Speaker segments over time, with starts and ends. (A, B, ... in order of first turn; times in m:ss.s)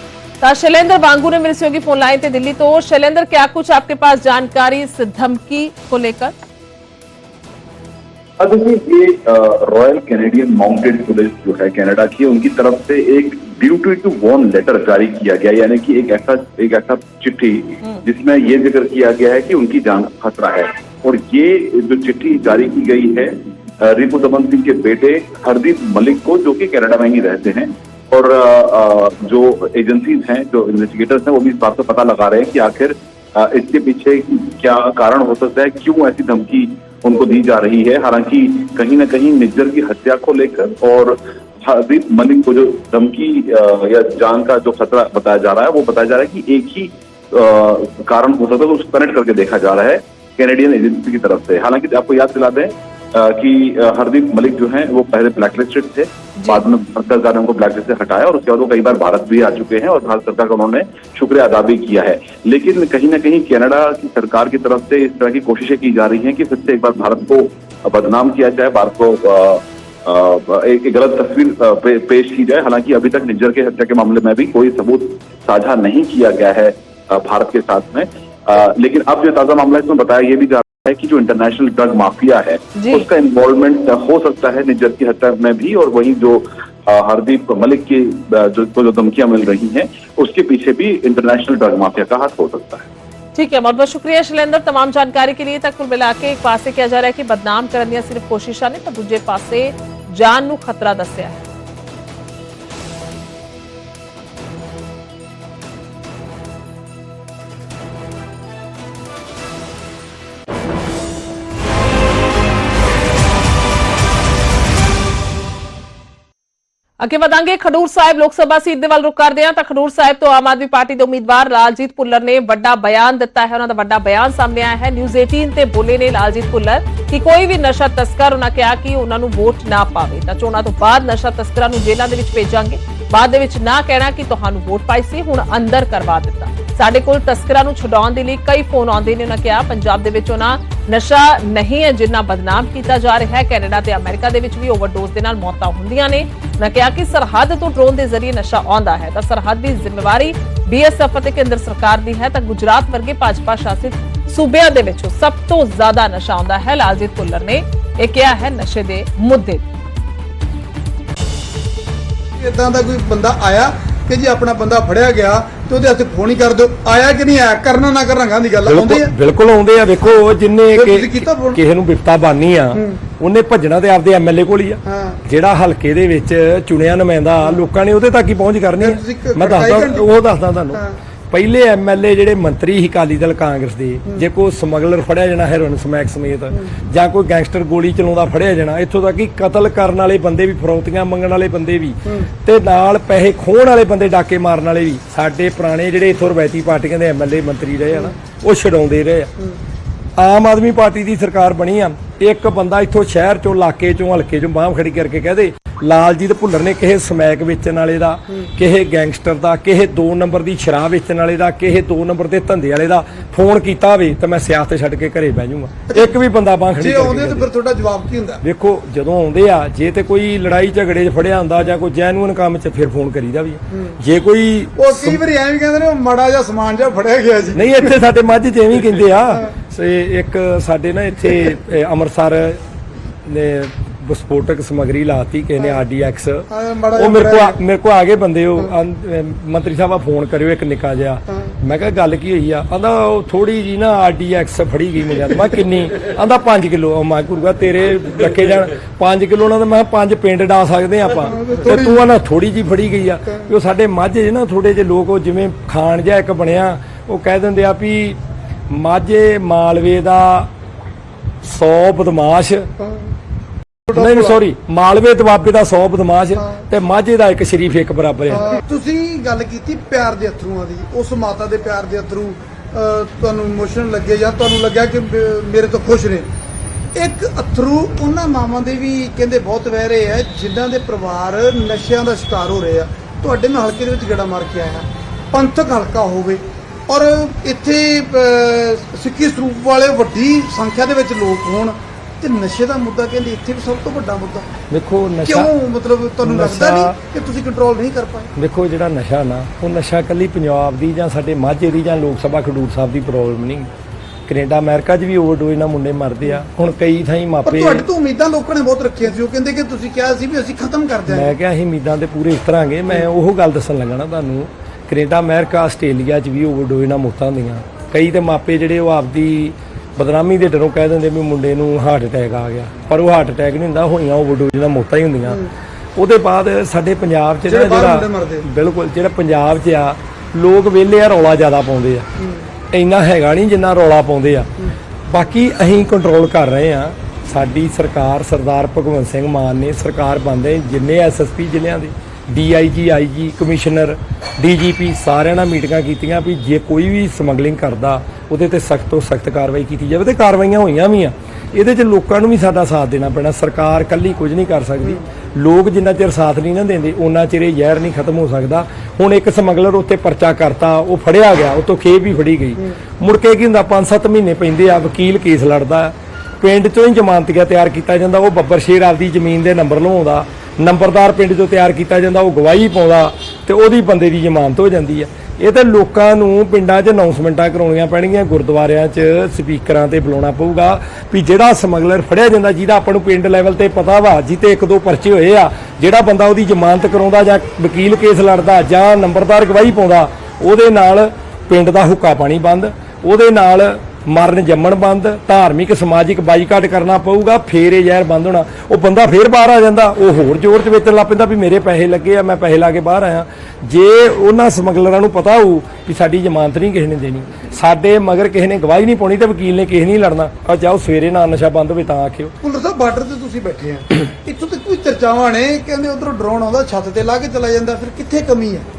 0:00.4-0:06.4 A
0:08.4-1:32.9 B
1:22.8-1:23.0 A
1:33.3-1:41.4 A
1:57.0-2:39.6 A
2:42.4-2:49.1 C
2:48.6-3:19.3 D
2:50.7-2:51.6 C
2:54.9-2:55.2 C
2:58.8-3:00.1 C
3:20.2-3:37.5 D
3:36.8-3:38.4 C
3:38.4-3:45.2 D
3:44.8-3:47.9 C
3:47.5-3:52.6 D
3:53.2-4:20.5 D
3:56.5-3:57.6 C
4:11.4-4:12.0 C
4:21.4-4:22.7 D
4:22.8-4:23.1 C
4:23.9-4:24.4 C
4:23.9-4:28.5 D
4:28.3-4:36.3 C
4:36.9-4:54.5 C
4:54.7-4:55.5 D
4:55.2-4:58.3 C
4:56.2-4:57.0 D
4:58.4-5:03.7 D
5:04.3-5:07.8 D
5:07.4-5:11.3 C
5:11.1-5:25.4 D
5:26.0-5:32.1 D
5:27.5-5:28.4 C
5:32.7-5:34.5 D
5:35.1-6:52.3 D
6:52.4-6:58.7 C